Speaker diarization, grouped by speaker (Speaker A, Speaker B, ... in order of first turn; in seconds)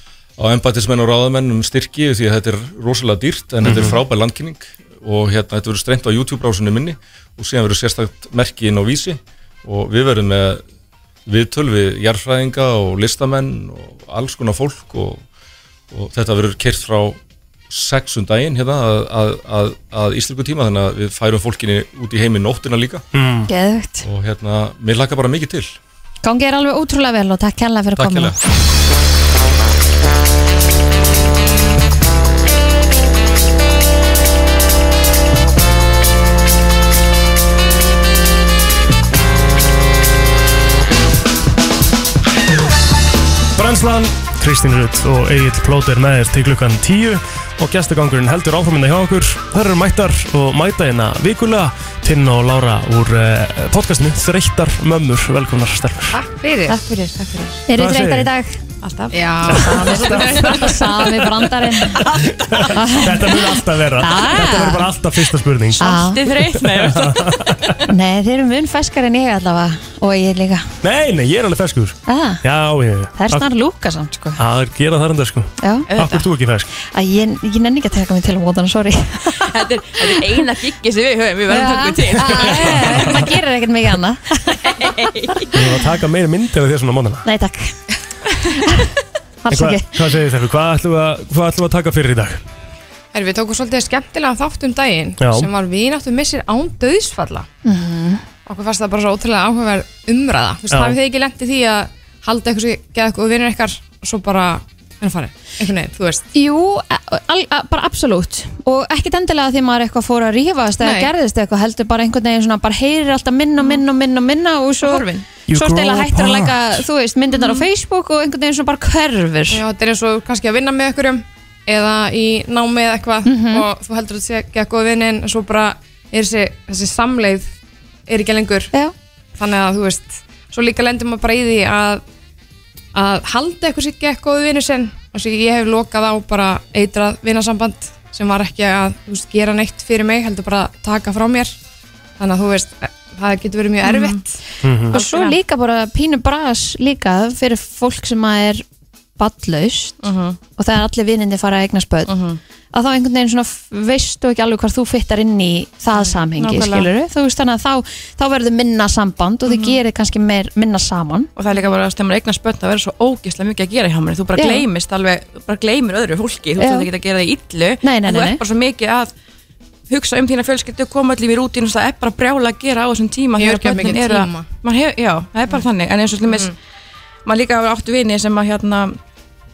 Speaker A: 0.4-10.6, 11.3-15.2, 15.9-17.2, 17.7-23.0, 24.0-25.8, 28.0-28.3
Speaker B: 3.6-4.0, 23.1-23.5, 43.5-56.2, 57.7-58.3, 59.5-60.1, 62.1-66.0, 66.6-67.7, 70.8-73.4, 74.4-76.7, 82.2-83.3, 85.5-87.2, 89.5-92.4, 95.2-95.5, 100.7-101.0, 115.5-116.8, 144.6-144.9
Speaker C: 23.5-24.0, 26.2-28.3, 57.7-58.6, 59.5-62.0, 62.7-64.9, 65.8-66.2, 67.9-70.7, 72.1-72.4, 73.2-74.4, 75.6-75.9, 76.7-80.2, 81.5-85.0, 87.2-87.7, 88.5-88.9, 89.4-89.9, 97.6-98.2, 106.3-119.6, 123.2-123.7, 144.9-148.6, 149.2-150.0, 150.6-152.1, 152.7-161.3, 164.3-164.6, 166.6-166.9, 167.8-168.4
Speaker D: 56.1-56.8, 59.1-60.6, 93.1-97.5, 98.5-106.2, 110.8-111.1, 119.5-127.5, 128.1-128.7, 129.4-132.0, 132.9-141.5, 142.2-144.2, 144.9-145.3, 173.3-174.5
Speaker E: 56.6-57.6, 58.8-60.9, 62.0-62.7, 65.8-67.8, 75.9-76.2, 79.4-83.2, 84.6-85.5, 114.8-115.3, 143.8-144.2, 150.0-150.4, 152.1-152.4, 156.1-156.9, 159.5-159.8, 161.3-169.1, 169.9-176.5, 177.2-179.0